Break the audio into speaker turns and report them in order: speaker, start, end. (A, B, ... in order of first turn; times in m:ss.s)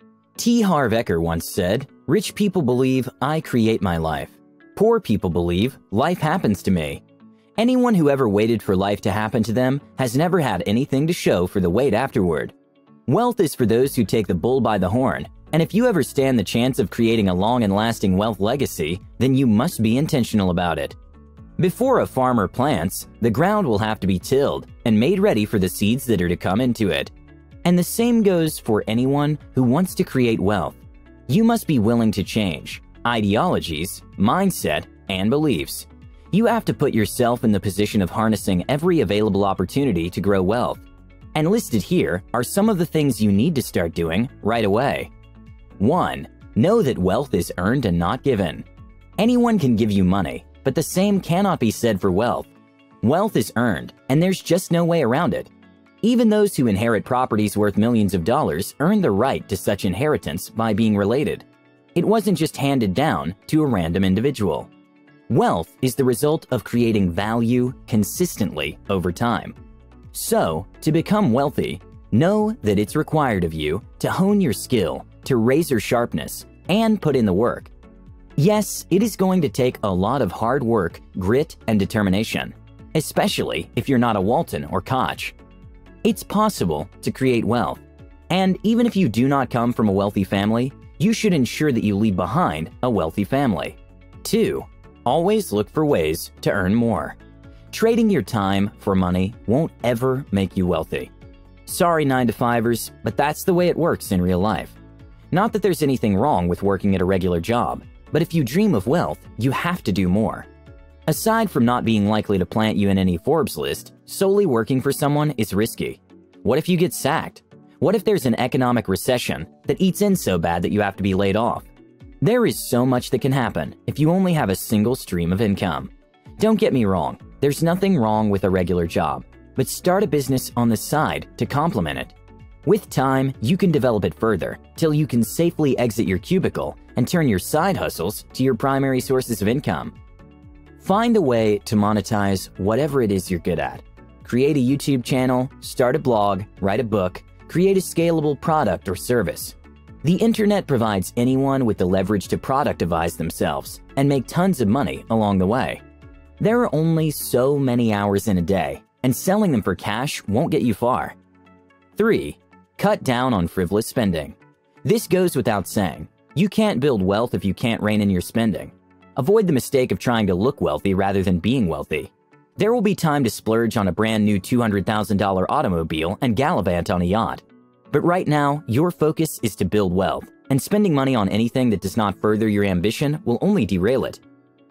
0:00.4-0:07.0 A
0:07.6-0:12.5 A
0:13.1-0:21.0 A
0:21.6-0:27.1 A
0:27.6-0:45.1 A
0:45.8-0:48.7 A
0:49.2-0:52.5 A
0:53.0-0:55.5 A
0:56.0-1:04.7 A
1:05.3-1:09.6 A
1:10.1-1:17.7 A
1:18.4-1:25.4 A
1:26.0-1:37.2 A
1:37.7-1:41.1 A
1:41.7-1:44.8 A
1:45.3-1:50.5 A
1:51.1-2:01.7 A
2:02.2-2:12.1 A
2:12.6-2:19.9 A
2:20.8-2:35.8 A
2:36.4-2:41.2 A
2:42.0-3:04.2 A